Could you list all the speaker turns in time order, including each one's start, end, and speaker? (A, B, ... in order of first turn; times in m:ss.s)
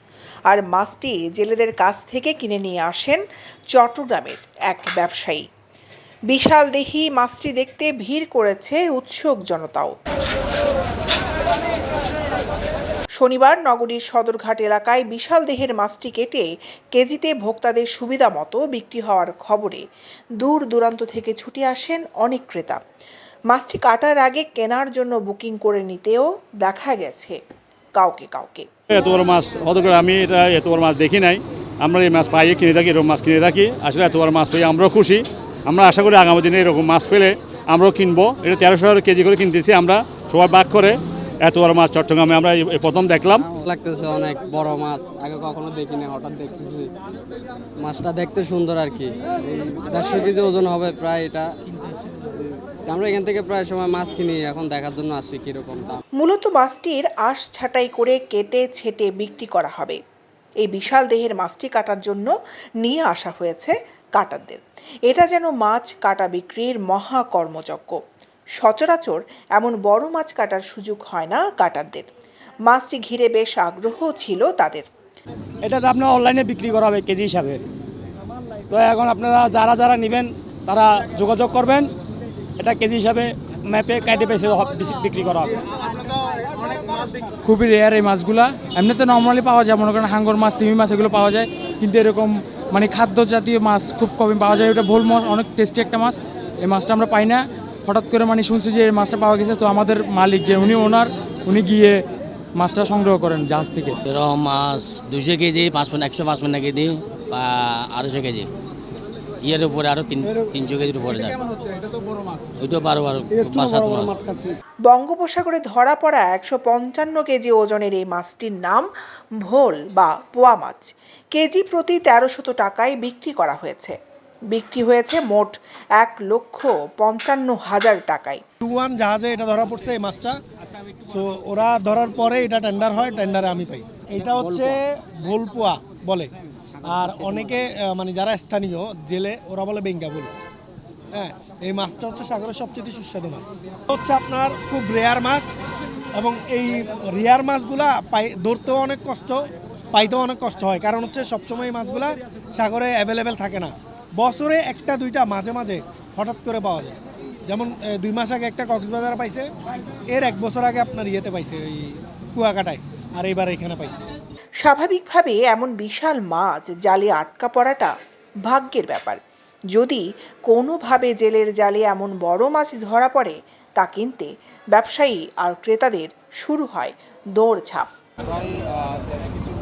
0:00.5-0:03.2 A
0:03.7-0:05.4 A
0:06.3-0:10.0 A
0:13.2-0:19.8 A
0:20.4-0:22.8 A
0:23.5-0:27.4 A
0:28.0-0:28.7 A
0:28.9-0:43.4 B
0:43.3-0:46.9 C
0:47.8-0:51.5 C
0:52.3-0:56.0 C
0:56.2-1:00.0 A
1:00.6-1:02.3 A
1:02.8-1:08.0 A
1:08.6-1:12.1 A
1:12.6-1:14.9 A
1:15.6-1:17.6 D
1:18.7-1:21.9 D
1:22.6-1:25.6 D
1:27.4-1:42.0 E
1:42.6-1:44.0 E
1:44.1-1:48.5 F
1:49.4-1:51.4 F
1:52.6-1:54.2 F
1:54.9-1:58.9 A
1:59.4-2:04.0 A
2:04.5-2:08.4 A
2:08.6-2:10.4 G
2:11.0-2:16.3 G
2:16.8-2:20.3 G
2:21.1-2:25.6 G
2:26.2-2:39.5 G
2:40.1-2:44.0 G
2:44.6-2:47.9 A
2:48.4-2:49.2 A
2:49.7-2:57.9 A